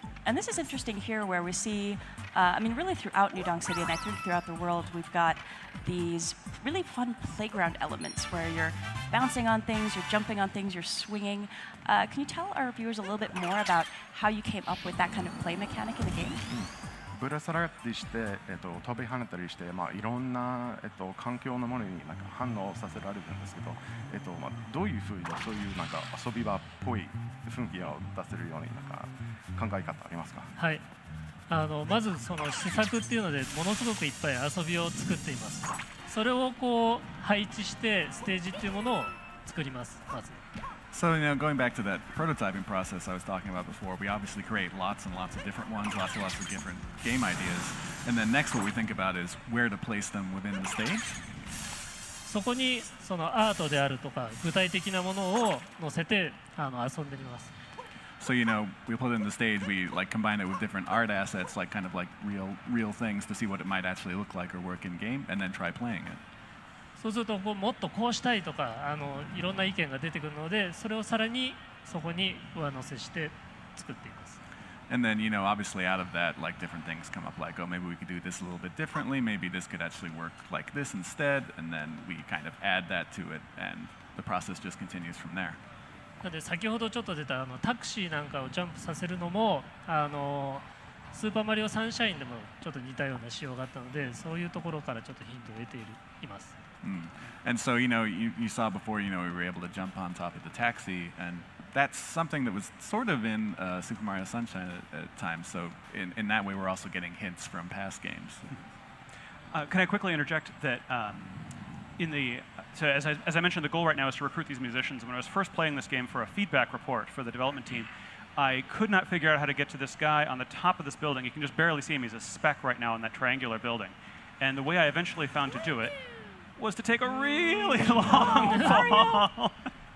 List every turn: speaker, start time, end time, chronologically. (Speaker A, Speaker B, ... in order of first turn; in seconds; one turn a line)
Speaker A: 0.2-16.4
Speaker B: 16.5-30.5
Speaker C: 30.6-30.8
Speaker C: 31.5-40.4
Speaker D: 40.9-51.2
Speaker C: 52.2-57.5
Speaker D: 58.2-66.2
Speaker C: 67.0-74.4
Speaker D: 74.9-85.6
Speaker C: 86.2-96.5
Speaker D: 96.8-108.5
Speaker E: 109.5-129.7
Speaker A: 128.6-129.1